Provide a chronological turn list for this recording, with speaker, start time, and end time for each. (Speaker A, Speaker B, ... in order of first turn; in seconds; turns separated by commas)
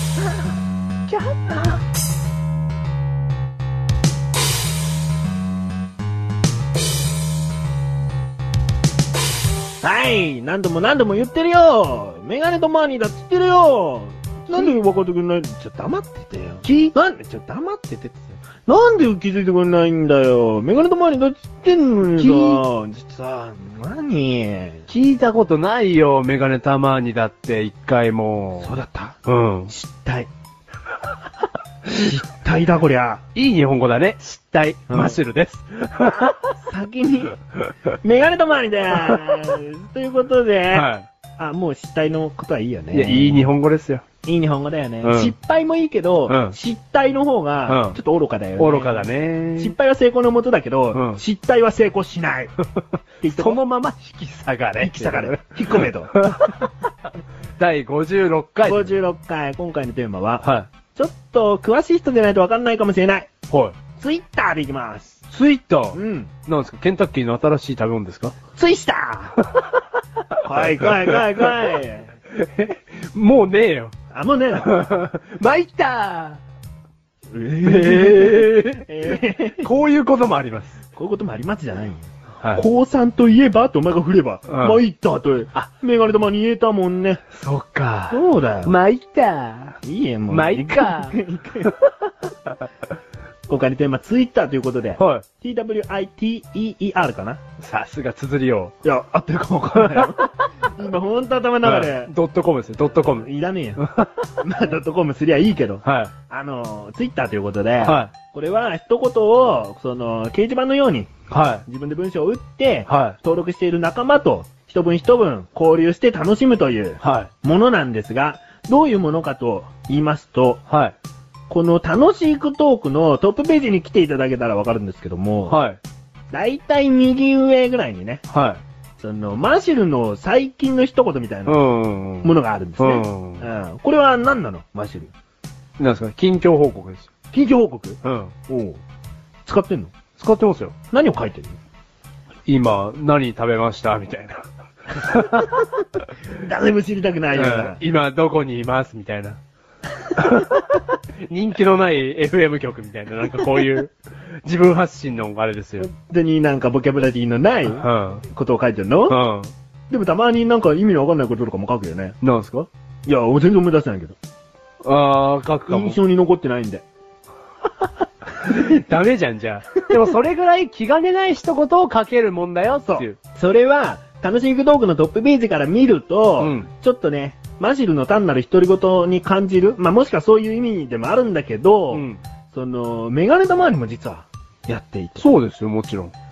Speaker A: 1.1-1.8, Speaker B: 9.8-24.9, Speaker A: 16.6-16.9, Speaker A: 22.0-22.6, Speaker A: 24.9-28.7, Speaker B: 28.6-29.2, Speaker A: 29.2-29.7, Speaker B: 29.7-30.3, Speaker B: 31.9-33.2, Speaker A: 33.4-36.5, Speaker B: 34.9-35.2, Speaker B: 36.0-37.4, Speaker B: 38.0-43.5, Speaker A: 40.7-41.1, Speaker A: 42.9-44.0, Speaker B: 44.2-52.5, Speaker A: 45.0-45.3, Speaker A: 46.3-46.6, Speaker A: 47.7-48.0, Speaker A: 48.6-49.8, Speaker A: 50.9-51.2, Speaker B: 53.2-53.6, Speaker A: 53.3-56.7, Speaker B: 54.8-56.1, Speaker A: 57.6-59.0, Speaker B: 58.6-63.3, Speaker A: 60.4-60.7, Speaker A: 63.5-63.8, Speaker B: 64.0-65.2, Speaker A: 65.3-68.4, Speaker B: 65.9-66.3, Speaker B: 68.6-69.4, Speaker B: 70.4-72.1, Speaker A: 70.5-71.4, Speaker A: 72.3-74.0, Speaker B: 74.1-74.7, Speaker A: 74.5-76.4, Speaker B: 77.3-79.7, Speaker A: 77.6-80.8, Speaker B: 81.0-87.2, Speaker A: 82.4-82.7, Speaker A: 84.5-84.8, Speaker A: 87.3-89.8, Speaker B: 88.1-88.8, Speaker B: 89.8-91.7, Speaker A: 90.3-91.2, Speaker B: 93.5-97.4, Speaker A: 95.0-95.2, Speaker A: 97.6-98.7, Speaker B: 98.8-102.1, Speaker A: 99.8-100.5, Speaker A: 101.6-104.4, Speaker B: 103.1-103.8, Speaker B: 104.4-111.1, Speaker A: 105.8-106.1, Speaker A: 107.8-108.1, Speaker A: 111.3-111.7, Speaker B: 111.7-120.6, Speaker A: 112.9-113.2, Speaker A: 117.0-117.3, Speaker A: 120.7-121.0, Speaker B: 121.5-125.6, Speaker A: 125.5-125.8, Speaker B: 126.3-128.2, Speaker A: 128.3-128.6, Speaker B: 129.0-131.6, Speaker A: 131.5-133.5, Speaker B: 132.2-135.1, Speaker A: 135.8-137.1, Speaker B: 137.3-138.8, Speaker A: 138.0-138.3, Speaker B: 139.5-139.9, Speaker A: 140.2-140.8, Speaker B: 140.9-141.6, Speaker A: 142.5-145.6, Speaker B: 146.4-147.8, Speaker A: 147.3-149.4, Speaker A: 150.2-155.9, Speaker B: 155.8-159.2, Speaker A: 157.8-158.2, Speaker A: 159.1-159.5, Speaker B: 159.9-162.2, Speaker A: 162.2-162.7, Speaker B: 163.1-164.2, Speaker A: 164.8-166.0, Speaker B: 165.7-166.8, Speaker A: 168.4-173.2, Speaker B: 172.9-185.3, Speaker A: 176.4-176.7, Speaker A: 181.9-182.2, Speaker A: 185.2-186.1